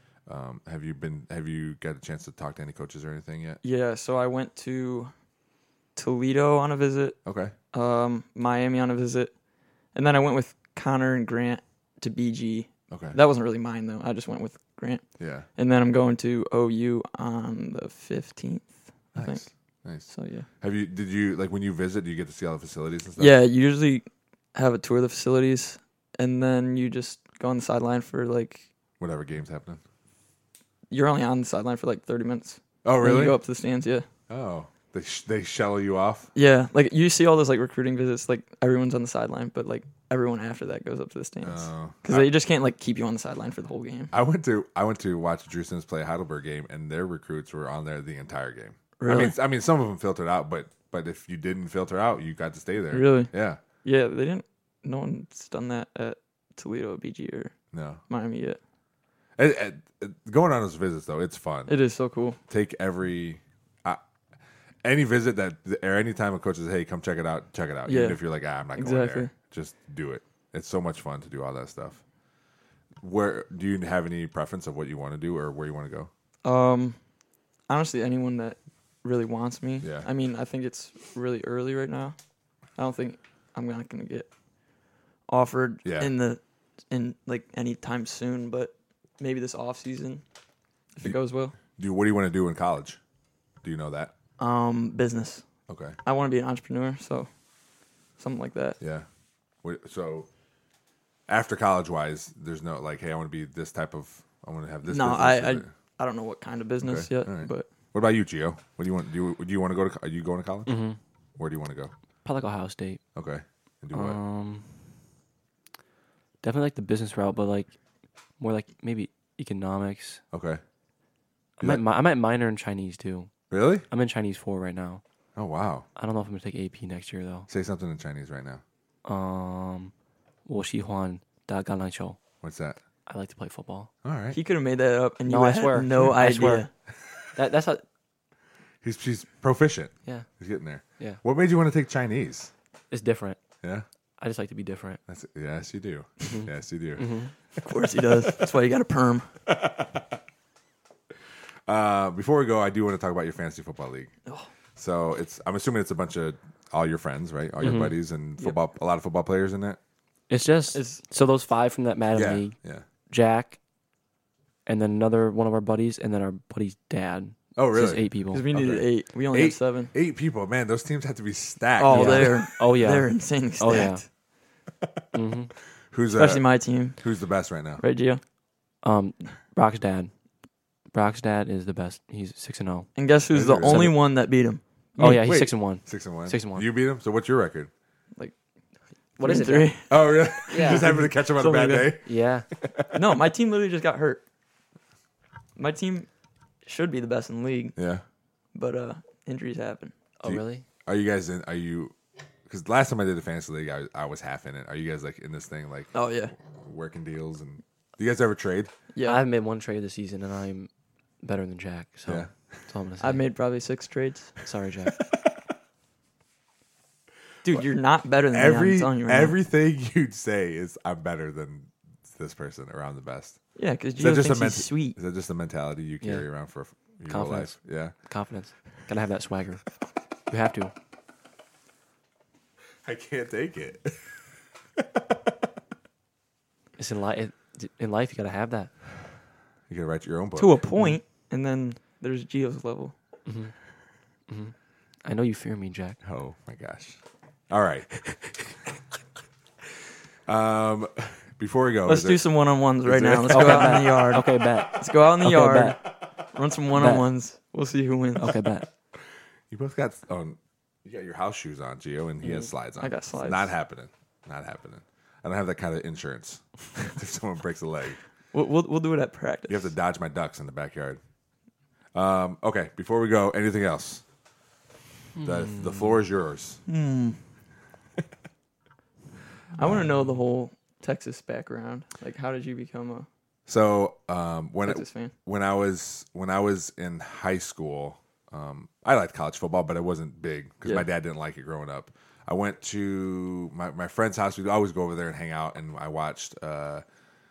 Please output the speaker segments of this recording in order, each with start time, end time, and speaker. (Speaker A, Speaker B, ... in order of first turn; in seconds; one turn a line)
Speaker A: 0.3-3.6
Speaker B: 3.6-5.1
Speaker B: 6.0-7.2
Speaker A: 7.2-7.5
Speaker B: 7.7-9.4
Speaker B: 9.9-19.4
Speaker A: 12.9-13.2
Speaker A: 15.2-15.5
Speaker A: 19.1-23.4
Speaker B: 20.1-20.5
Speaker B: 23.2-28.7
Speaker A: 29.0-29.8
Speaker B: 30.9-34.1
Speaker A: 32.8-33.4
Speaker A: 34.3-36.3
Speaker B: 36.4-44.1
Speaker A: 41.4-42.3
Speaker A: 44.1-53.6
Speaker B: 49.0-49.3
Speaker B: 52.9-53.3
Speaker B: 53.8-57.5
Speaker A: 57.7-58.0
Speaker B: 58.1-58.6
Speaker A: 59.4-61.7
Speaker B: 61.7-62.4
Speaker A: 62.5-64.0
Speaker A: 64.8-72.0
Speaker B: 67.9-68.2
Speaker B: 68.7-69.3
Speaker A: 73.0-76.1
Speaker B: 76.4-77.0
Speaker B: 77.7-82.2
Speaker A: 79.8-80.1
Speaker B: 82.8-84.3
Speaker B: 85.3-90.2
Speaker A: 85.8-86.1
Speaker B: 91.0-91.5
Speaker A: 91.7-93.0
Speaker A: 93.6-94.1
Speaker B: 94.4-95.5
Speaker A: 95.7-96.0
Speaker B: 96.0-97.3
Speaker B: 98.2-98.8
Speaker A: 98.8-99.1
Speaker A: 99.6-100.3
Speaker A: 101.3-105.7
Speaker B: 104.9-107.7
Speaker A: 106.8-110.8
Speaker C: 110.7-111.0
Speaker A: 111.4-111.9
Speaker C: 112.2-113.0
Speaker A: 113.2-114.2
Speaker C: 113.9-114.7
Speaker C: 116.4-117.7
Speaker C: 118.4-120.2
Speaker A: 120.3-120.6
Speaker C: 121.6-123.3
Speaker A: 123.5-123.9
Speaker C: 123.9-125.0
Speaker A: 125.4-125.9
Speaker C: 126.0-127.5
Speaker A: 127.5-128.6
Speaker C: 129.1-129.9
Speaker C: 130.5-132.2
Speaker A: 132.4-132.8
Speaker C: 133.1-133.9
Speaker A: 134.0-134.4
Speaker B: 134.3-136.7
Speaker C: 135.3-136.7
Speaker C: 137.3-137.8
Speaker A: 138.8-142.5
Speaker C: 142.9-143.4
Speaker C: 144.2-145.0
Speaker A: 145.1-147.1
Speaker C: 146.2-147.3
Speaker B: 147.6-149.3
Speaker A: 149.5-150.0
Speaker A: 151.7-154.1
Speaker A: 154.8-159.8
Speaker C: 157.6-157.9
Speaker C: 160.3-162.6
Speaker B: 160.7-161.0
Speaker A: 162.1-162.8
Speaker C: 163.1-163.6
Speaker C: 164.7-168.4
Speaker A: 167.6-172.5
Speaker B: 168.3-169.9
Speaker B: 171.8-174.0
Speaker C: 171.9-174.0
Speaker C: 175.1-175.5
Speaker A: 175.9-176.4
Speaker B: 176.2-177.0
Speaker A: 177.0-177.8
Speaker B: 177.8-178.2
Speaker C: 178.8-180.1
Speaker C: 180.9-183.0
Speaker B: 183.0-184.6
Speaker A: 183.3-183.9
Speaker C: 183.6-184.0
Speaker C: 185.0-186.7
Speaker A: 185.0-187.7
Speaker C: 189.2-189.7
Speaker B: 189.2-191.9
Speaker A: 189.9-193.0
Speaker C: 190.5-192.5
Speaker B: 192.9-194.2
Speaker B: 195.6-196.1
Speaker B: 196.6-197.8
Speaker A: 197.8-198.0
Speaker B: 198.5-199.9
Speaker C: 200.2-200.7
Speaker A: 200.2-201.9
Speaker A: 202.5-208.7
Speaker B: 205.9-206.3
Speaker B: 208.9-209.2
Speaker C: 209.0-210.7
Speaker C: 211.2-213.2
Speaker A: 212.1-212.3
Speaker B: 213.0-214.4
Speaker C: 214.4-215.0
Speaker B: 217.4-219.4
Speaker A: 218.3-223.4
Speaker B: 223.6-225.0
Speaker A: 224.0-227.9
Speaker C: 226.0-226.3
Speaker C: 227.1-229.6
Speaker C: 230.3-230.7
Speaker A: 232.8-234.2
Speaker A: 234.8-235.3
Speaker C: 236.8-238.7
Speaker A: 239.7-240.6
Speaker B: 240.4-242.9
Speaker C: 243.3-243.5
Speaker C: 244.3-246.0
Speaker A: 246.0-247.9
Speaker A: 250.3-252.2
Speaker B: 251.9-258.6
Speaker A: 252.8-254.0
Speaker C: 253.3-255.8
Speaker C: 256.7-257.1
Speaker C: 258.2-258.7
Speaker A: 259.5-268.0
Speaker B: 262.8-263.5
Speaker B: 268.3-269.7
Speaker A: 269.5-271.0
Speaker A: 271.9-274.0
Speaker C: 275.2-276.0
Speaker A: 275.2-276.6
Speaker B: 276.7-277.2
Speaker B: 279.6-283.1
Speaker A: 283.5-296.8
Speaker B: 284.7-285.1
Speaker B: 290.6-290.9